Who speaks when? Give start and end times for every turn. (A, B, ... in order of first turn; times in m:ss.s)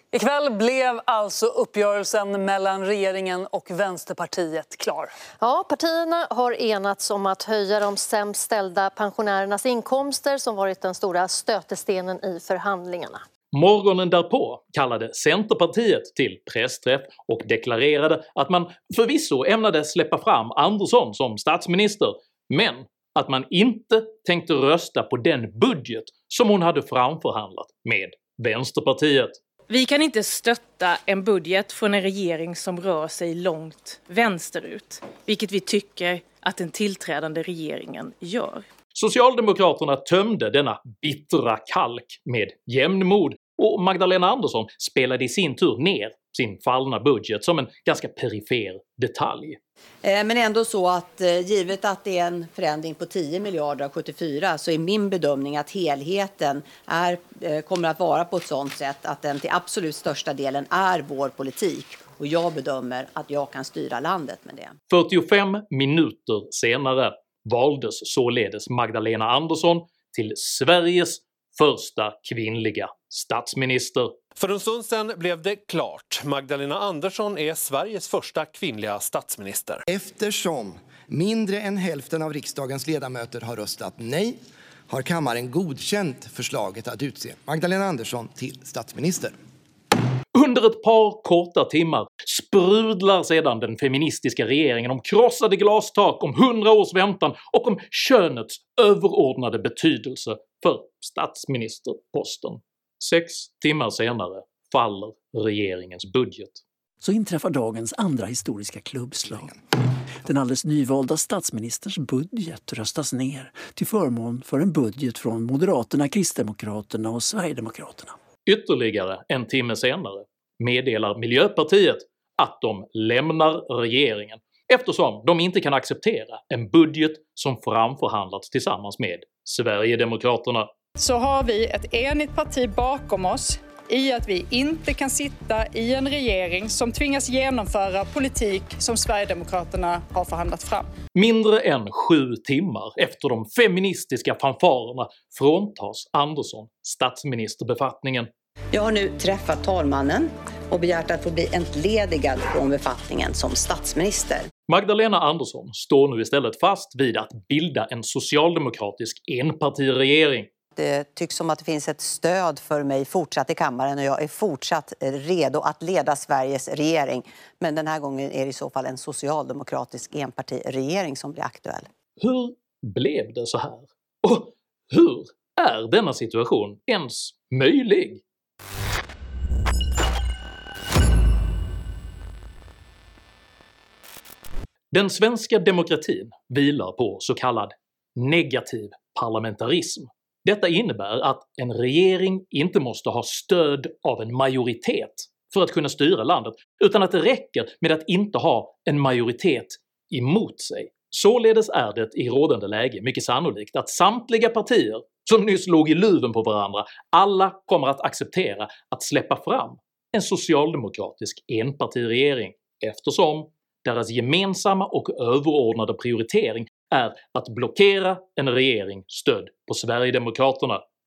0:00.1-0:05.1 A
0:05.4-0:13.2 B
0:13.5-0:29.4 C
0:29.7-0:38.6 D
0:38.9-0:49.6 C
0:50.0-1:04.7 E
1:04.9-1:14.1 C
1:14.4-1:19.8 F
1:19.9-1:24.4 G
1:24.9-1:29.3 G
1:30.3-1:46.6 C
1:47.0-1:49.6 H
1:50.2-1:58.2 H
1:58.4-2:10.7 C
2:11.0-2:20.9 I
2:21.1-2:28.3 C
2:28.7-2:34.5 E
2:34.7-2:40.5 C
2:40.8-2:51.9 E
2:52.2-2:58.2 C
3:04.9-3:40.8 C